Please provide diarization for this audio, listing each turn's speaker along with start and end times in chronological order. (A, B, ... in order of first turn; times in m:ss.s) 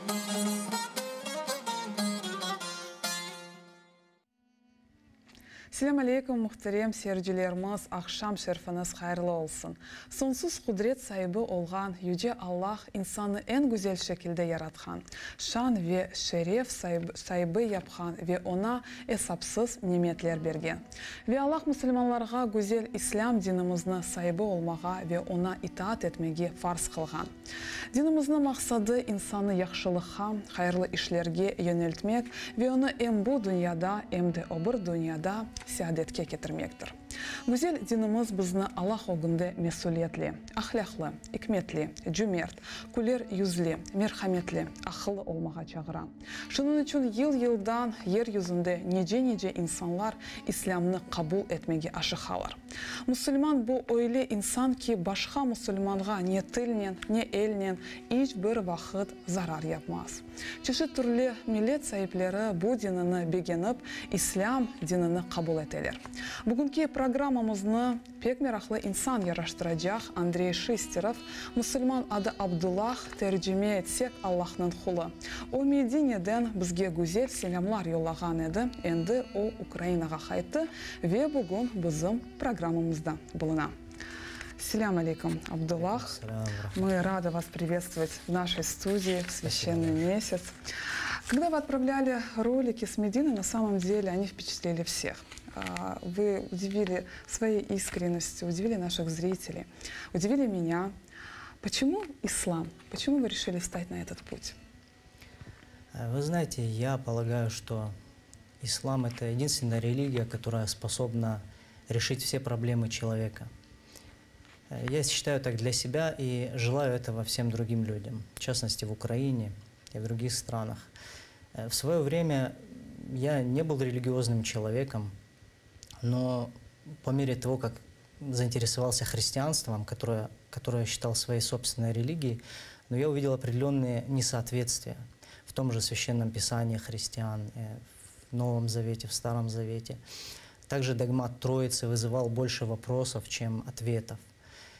0:05.7-0:27.3 A
0:27.9-1:23.7 A
1:24.6-1:26.2 A
1:25.8-1:27.0 B
1:26.7-1:30.5 A
1:29.4-1:30.0 B
1:31.2-1:40.9 A
1:41.6-1:44.6 A
1:45.9-1:47.9 B
1:48.6-1:53.5 B
1:54.7-2:00.9 B
2:01.5-2:05.1 B
2:06.0-2:20.0 B
2:20.7-2:24.2 B